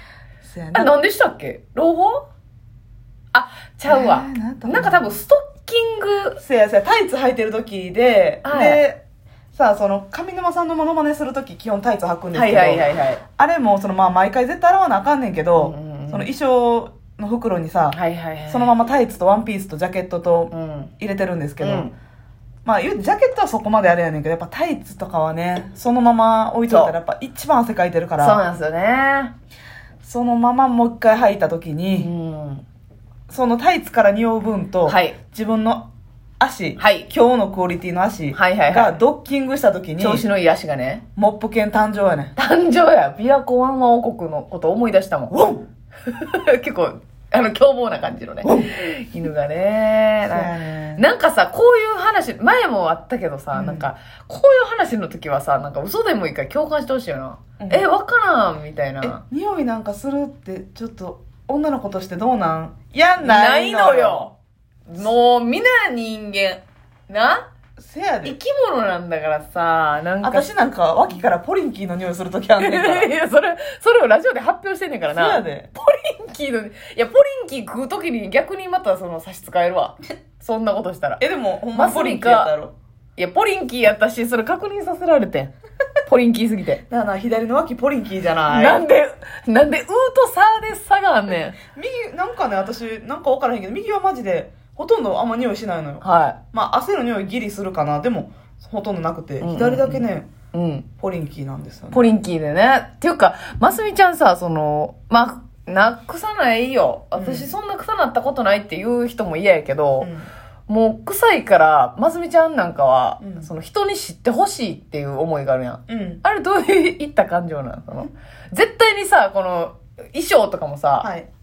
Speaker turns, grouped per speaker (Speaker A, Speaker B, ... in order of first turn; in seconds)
Speaker A: 0.4-0.9, 3.9-5.2, 6.4-9.0, 9.5-21.9, 22.6-28.4, 30.0-32.1, 33.3-35.9, 36.4-40.2, 41.1-42.3, 45.3-45.6, 48.4-48.7, 50.2-51.0, 53.5-53.9, 57.6-57.8, 59.0-64.3, 67.8-68.4, 70.2-73.1, 75.1-75.7, 81.2-82.7, 86.9-88.8, 91.7-100.3, 101.0-102.1, 107.1-107.5, 110.0-110.3, 113.2-113.5, 115.9-116.2, 121.0-121.3
Speaker B: 0.7-2.3, 3.3-6.4, 8.4-8.8, 12.3-13.2, 15.6-16.3, 17.9-18.7, 20.5-20.9, 21.6-21.9, 26.7-26.9, 28.2-29.3, 32.0-32.6, 34.9-35.2, 36.8-37.1, 38.3-39.0, 40.0-41.0, 42.4-45.3, 46.0-59.2, 63.2-64.3, 64.9-67.5, 68.2-70.5, 72.6-81.2, 81.8-82.5, 83.2-85.5, 86.1-86.8, 88.5-91.6, 96.0-96.4, 99.4-100.9, 101.9-110.1, 110.7-121.1